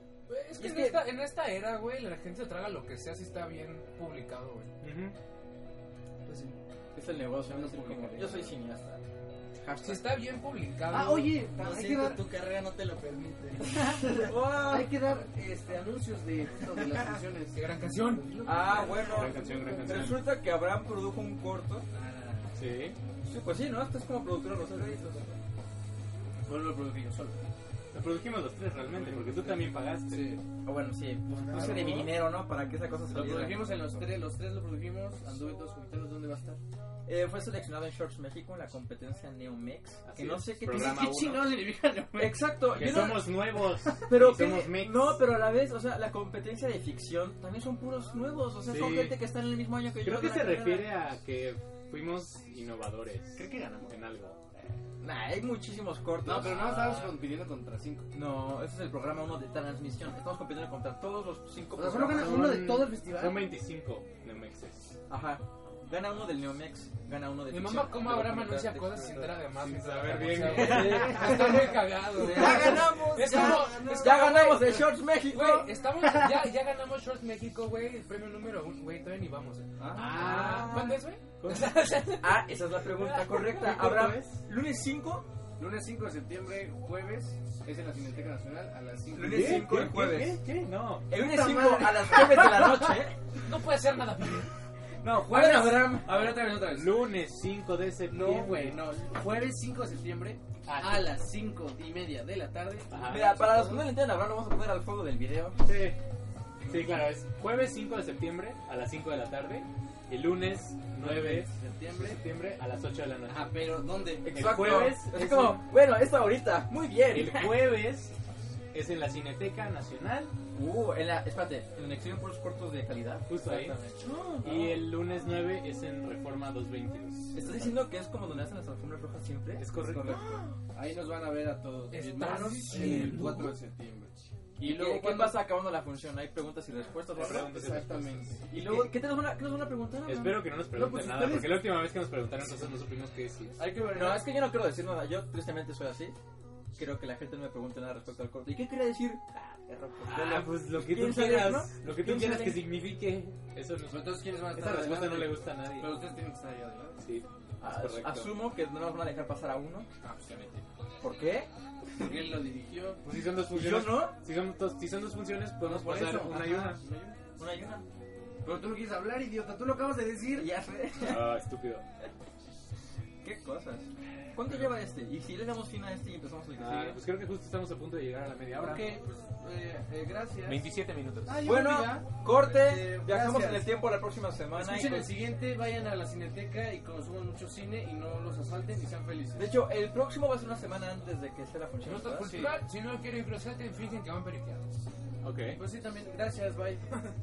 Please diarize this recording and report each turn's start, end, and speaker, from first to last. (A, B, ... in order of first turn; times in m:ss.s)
0:00.3-0:04.7 A
0:00.6-0:01.1 B
0:04.8-0:05.2 C
0:06.3-0:06.5 D
0:06.9-0:09.0 B
0:07.4-0:08.6 D
0:09.6-0:10.2 B
0:09.8-0:11.4 A
0:10.9-0:12.2 D
0:11.5-0:14.3 E
0:14.0-0:15.0 B
0:14.5-0:17.6 D
0:17.5-0:19.2 A
0:18.4-0:21.9 B
0:18.6-0:20.1 D
0:18.7-0:20.2 C
0:21.9-0:22.6 D
0:22.6-0:23.0 C
0:23.2-0:25.4 B
0:26.4-0:27.4 D
0:27.9-0:30.4 C
0:28.9-0:30.4 D
0:30.6-0:34.1 B
0:31.3-0:32.1 E
0:31.5-0:32.1 D
0:33.0-0:36.6 D
0:33.2-0:33.6 C
0:37.1-0:41.1 B
0:40.0-0:41.6 C
0:40.7-0:43.1 D
0:42.2-0:43.5 B
0:42.7-0:45.2 C
0:44.0-0:50.9 B
0:48.6-0:49.2 C
0:50.0-0:54.4 C
0:53.4-0:54.0 D
0:55.0-0:57.1 B
0:56.2-0:58.1 D
0:56.5-0:57.0 C
0:58.1-1:02.5 B
1:01.8-1:03.5 D
1:02.1-1:05.0 C
1:05.1-1:09.4 B
1:07.5-1:23.6 A
1:09.6-1:11.5 C
1:10.4-1:15.7 B
1:12.2-1:14.3 E
1:19.8-1:20.5 D
1:19.8-1:21.0 B
1:20.0-1:20.9 C
1:21.4-1:21.7 C
1:22.2-1:25.3 B
1:23.6-1:24.1 C
1:23.9-1:24.4 D
1:25.6-1:29.8 D
1:29.1-1:30.4 B
1:29.2-1:31.1 C
1:31.1-1:33.2 B
1:31.2-1:32.8 D
1:33.4-1:34.5 A
1:35.0-1:37.1 D
1:35.3-1:36.4 B
1:36.6-1:38.8 C
1:38.1-1:43.9 D
1:40.6-1:41.2 C
1:42.9-1:43.5 C
1:43.1-1:45.6 B
1:45.6-1:46.0 C
1:46.7-1:53.7 C
1:51.0-1:52.2 D
1:53.3-1:54.5 D
1:54.2-1:57.7 B
1:54.3-1:55.7 C
1:57.1-1:58.2 C
1:58.7-2:00.3 C
2:00.5-2:04.8 B
2:03.3-2:03.8 C
2:04.4-2:07.8 C
2:07.3-2:10.6 B
2:09.6-2:10.2 C
2:10.7-2:15.4 D
2:11.9-2:13.4 A
2:12.7-2:13.5 C
2:14.6-2:17.6 B
2:17.2-2:18.5 C
2:17.2-2:18.9 D
2:18.5-2:20.5 B
2:20.1-2:23.6 C
2:20.7-2:21.8 D
2:23.6-2:24.4 D
2:23.9-2:26.2 B
2:26.8-2:32.6 B
2:30.0-2:36.0 C
2:33.9-2:37.0 D
2:37.0-2:38.4 C
2:37.6-2:39.9 B
2:40.0-2:40.6 D
2:41.0-2:42.2 B
2:42.0-2:43.2 D
2:43.0-2:46.8 C
2:43.5-2:44.2 B
2:45.6-2:46.8 B
2:45.8-2:47.2 D
2:47.4-2:47.9 B
2:48.4-2:50.5 D
2:50.3-2:51.4 B
2:51.0-2:51.8 C
2:53.2-2:57.0 B
2:56.6-2:59.0 C
2:58.5-3:00.7 D
3:00.4-3:01.5 C
3:01.2-3:03.7 D
3:01.4-3:05.1 B
3:04.6-3:09.5 D
3:09.4-3:12.5 B
3:11.8-3:14.8 A
3:12.2-3:12.6 D
3:15.2-3:15.6 C
3:15.5-3:17.0 D